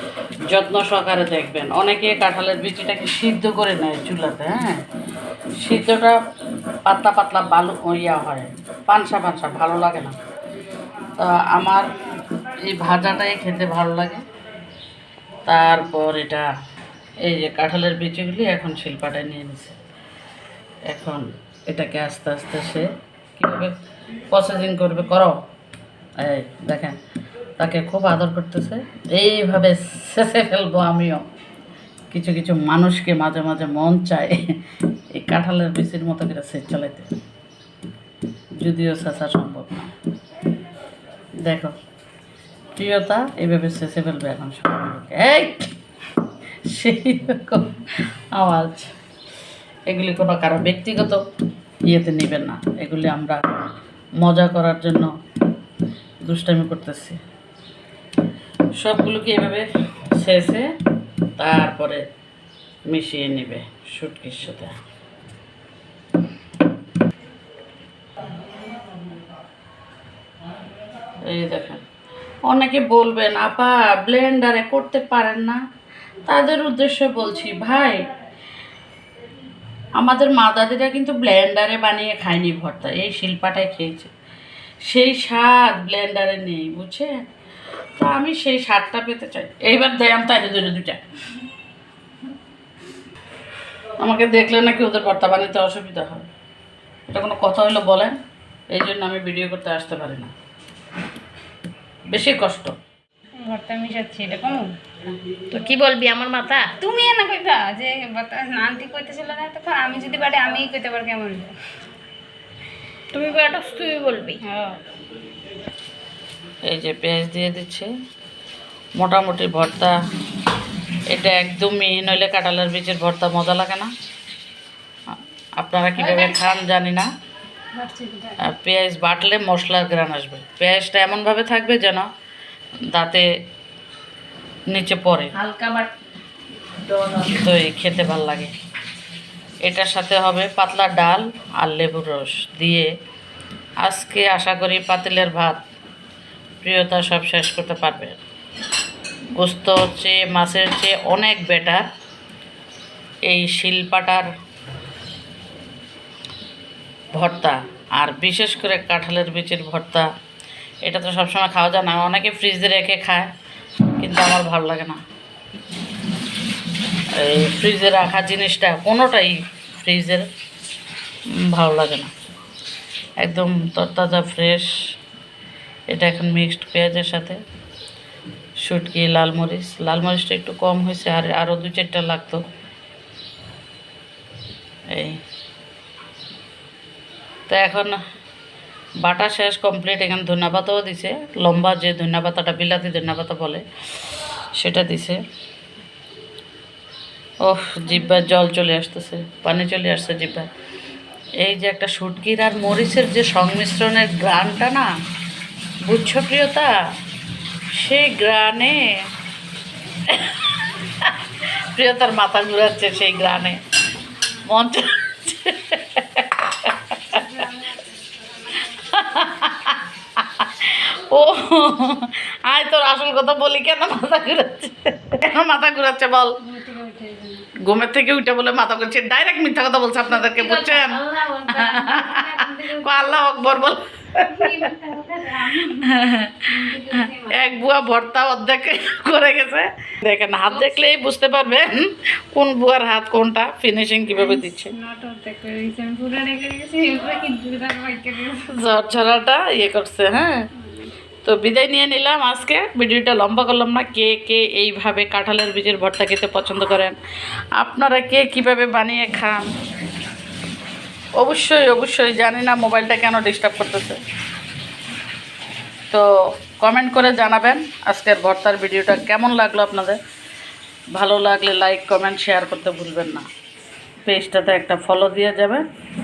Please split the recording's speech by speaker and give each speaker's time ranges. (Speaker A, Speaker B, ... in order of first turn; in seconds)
Speaker A: 0.5-4.8, 5.6-6.2, 6.8-10.1, 11.2-11.9, 12.7-14.2, 15.4-16.5, 17.2-19.8, 20.9-23.7, 24.3-25.4, 26.2-27.0, 27.6-31.2, 32.1-34.4, 35.1-37.1, 38.6-39.9, 41.4-41.7, 42.8-45.7, 46.6-47.8, 48.3-48.9, 49.9-51.2, 51.9-53.4, 54.2-55.1, 56.2-57.2, 58.8-59.7, 60.2-60.7, 61.4-62.0, 62.9-64.7, 71.2-71.8, 72.5-75.6, 76.3-78.0, 80.0-84.1, 84.8-87.2, 88.0-91.0, 94.0-96.3, 97.1-98.2, 98.7-100.3, 102.1-102.7, 116.7-117.9, 119.0-119.9, 121.1-123.9, 125.6-127.1, 128.4-132.1, 132.9-133.3, 134.7-135.3, 137.3-138.5, 139.6-142.9, 143.8-145.6, 146.6-148.2, 149.3-151.9, 153.2-154.3, 157.1-160.1, 160.8-163.3, 164.0-165.0, 167.1-170.2, 171.3-172.1, 173.2-174.7, 175.9-177.4, 178.6-182.4, 184.9-185.2, 187.5-188.0, 189.0-193.6, 194.6-195.2, 197.4-200.5, 201.4-204.9, 205.8-206.7, 207.7-208.9, 210.1-213.6, 214.4-217.2, 218.7-226.3, 227.6-234.7, 235.6-244.7, 248.5-250.3, 251.2-257.0, 257.6-259.5, 261.2-264.0, 266.6-270.0, 270.9-273.3, 274.0-275.6
Speaker B: 103.4-104.7, 106.7-111.5, 114.4-114.8, 127.7-128.4, 197.9-198.3, 217.1-219.3, 226.4-227.5, 230.1-233.2, 234.2-237.5, 240.5-240.8, 244.1-248.5, 250.6-250.9
Speaker C: 105.5-106.7, 113.1-114.4, 126.0-126.3, 135.3-135.9, 136.8-137.4